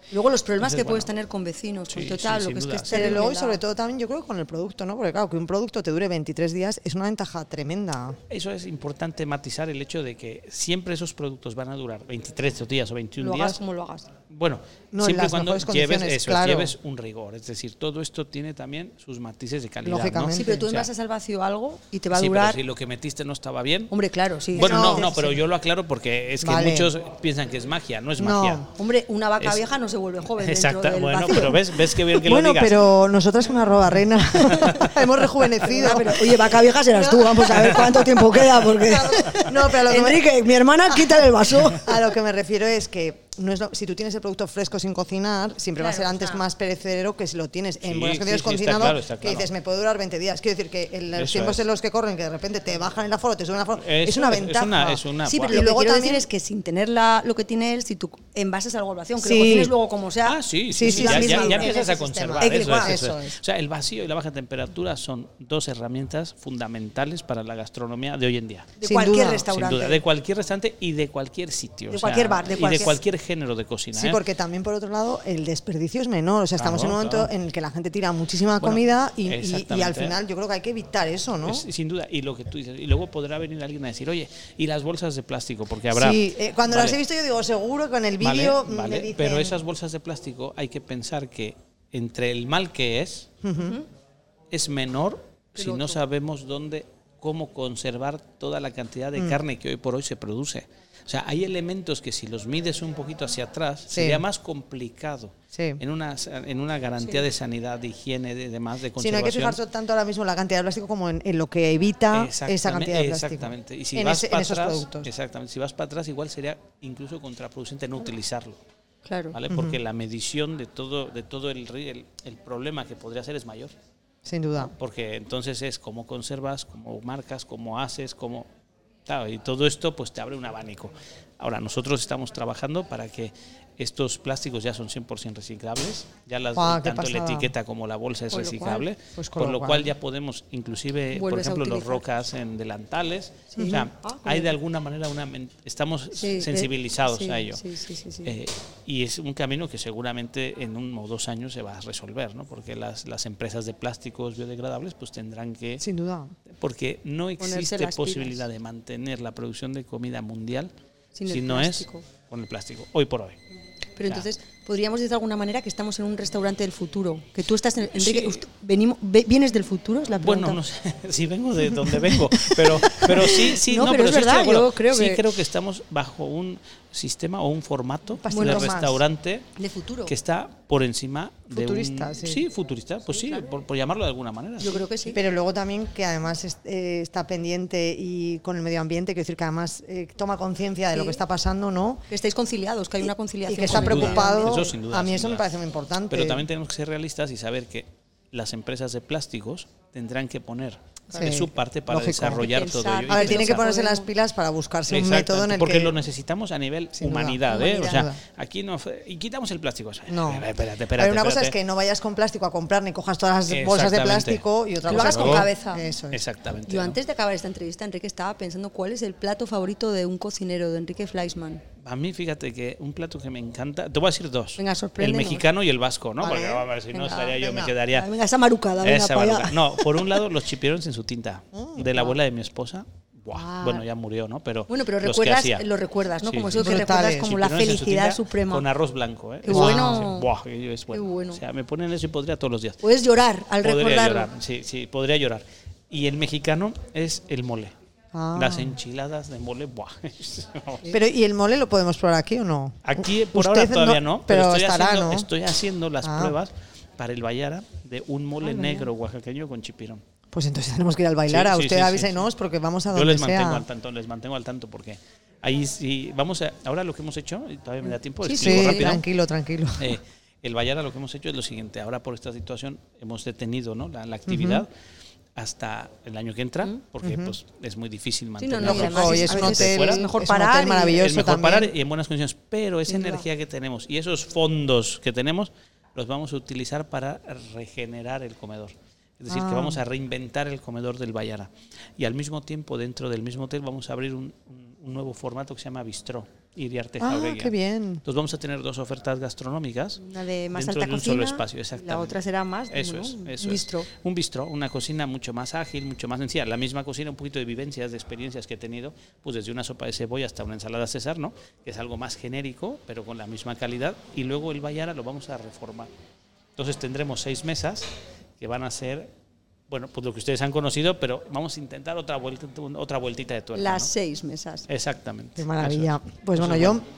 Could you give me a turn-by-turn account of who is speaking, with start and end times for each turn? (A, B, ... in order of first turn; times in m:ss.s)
0:00.1-0:03.6 A
0:00.6-0:01.1 B
0:01.9-0:03.2 B
0:02.9-0:08.2 C
0:08.3-0:13.6 B
0:13.2-0:14.1 A
0:14.3-0:20.9 B
0:14.9-0:16.7 C
0:19.8-0:20.6 C
0:20.4-0:22.6 A
0:22.1-0:23.9 B
0:23.9-0:25.3 A
0:24.5-0:28.6 B
0:24.6-0:25.4 C
0:26.4-0:26.9 C
0:28.2-0:28.7 C
0:28.8-0:31.6 A
0:30.4-0:32.9 B
0:32.2-0:36.3 C
0:34.4-0:35.0 B
0:35.6-0:41.9 A
0:36.9-0:40.3 C
0:37.5-0:38.5 B
0:40.9-0:56.2 C
0:45.8-0:46.4 A
0:47.8-0:49.5 B
0:51.2-0:51.6 B
0:53.8-0:55.6 B
0:55.3-1:03.0 A
0:59.2-0:59.8 C
1:00.2-1:08.7 B
1:00.7-1:03.4 C
1:08.8-1:10.0 A
1:08.8-1:09.5 C
1:09.5-1:14.2 B
1:11.9-1:13.0 A
1:13.9-1:21.6 C
1:16.6-1:17.3 B
1:18.6-1:20.2 B
1:21.5-1:27.0 B
1:25.9-1:29.6 C
1:28.2-1:33.3 B
1:33.4-1:33.8 C
1:33.6-1:33.9 A
1:34.5-1:49.6 B
1:35.6-1:36.0 A
1:43.9-1:44.2 C
1:45.5-1:45.8 C
1:49.0-1:55.1 C
1:52.1-1:58.6 B
1:59.0-1:59.4 A
1:59.3-2:03.7 B
1:59.5-1:59.8 C
2:04.2-2:04.7 C
2:04.7-2:08.5 B
2:09.1-2:27.6 B
2:16.6-2:17.5 C
2:18.3-2:18.8 A
2:19.2-2:19.9 C
2:21.1-2:22.0 A
2:23.5-2:24.5 A
2:23.6-2:23.9 C
2:26.2-2:28.4 A
2:28.2-2:35.8 B
2:35.8-2:36.3 C
2:36.5-2:40.7 B
2:37.4-2:38.4 A
2:41.2-2:42.0 A
2:41.3-2:43.4 B
2:44.0-2:50.6 A
2:48.0-2:48.4 B
2:50.2-2:59.5 B
2:52.0-2:55.2 A
2:58.2-2:59.0 C
2:58.3-2:58.7 A
2:59.6-3:00.1 A
3:00.1-3:04.8 B
3:01.5-3:02.4 C
3:04.6-3:05.2 A
3:05.1-3:12.0 C
3:10.9-3:11.2 A
3:12.1-3:14.6 A
3:13.5-3:16.5 C
3:13.6-3:15.5 B
3:16.1-3:23.7 B
3:21.1-3:22.4 C
3:22.3-3:24.1 A
3:23.1-3:25.9 C
3:24.9-3:31.6 B
3:27.0-3:28.2 C
3:30.1-3:36.2 C
3:33.5-3:35.5 B
3:34.9-3:35.9 A
3:36.1-3:37.0 B
3:36.7-3:41.6 A
3:41.8-3:48.1 B
3:44.6-3:45.4 A
3:46.2-3:46.7 C
3:46.9-3:47.3 A
3:47.2-3:47.7 C
3:47.9-3:49.9 A
3:48.8-3:55.6 B
3:51.5-3:51.9 C
3:53.3-3:53.8 A
3:54.7-3:58.6 A
3:56.2-4:02.8 B
3:56.6-3:57.3 C
3:59.4-4:00.3 A
3:59.5-4:00.1 C
4:00.9-4:01.4 A
4:02.8-4:04.3 A
4:03.6-4:07.7 B
4:08.1-4:08.8 C
4:08.4-4:10.9 B
4:10.9-4:15.3 C
4:12.8-4:20.0 B
4:16.0-4:16.4 C
4:20.3-4:23.6 C
4:21.3-4:22.3 B
4:22.9-4:29.0 B
4:28.2-4:29.0 A
4:28.4-4:30.0 C
4:29.8-4:34.7 B
4:34.3-4:34.6 C
4:35.4-4:40.1 B
4:37.0-4:37.3 C
4:38.4-4:41.0 A
4:38.6-4:41.7 C
4:40.9-4:57.5 B
4:49.3-4:49.8 C
4:57.0-4:58.0 C
4:58.0-5:00.0 B
5:00.0-5:03.9 A
5:00.5-5:02.2 B
5:02.7-5:15.9 B
5:16.6-5:19.1 B
5:19.7-5:23.9 B
5:23.6-5:24.7 A
5:24.7-5:26.8 B
5:25.4-5:26.8 C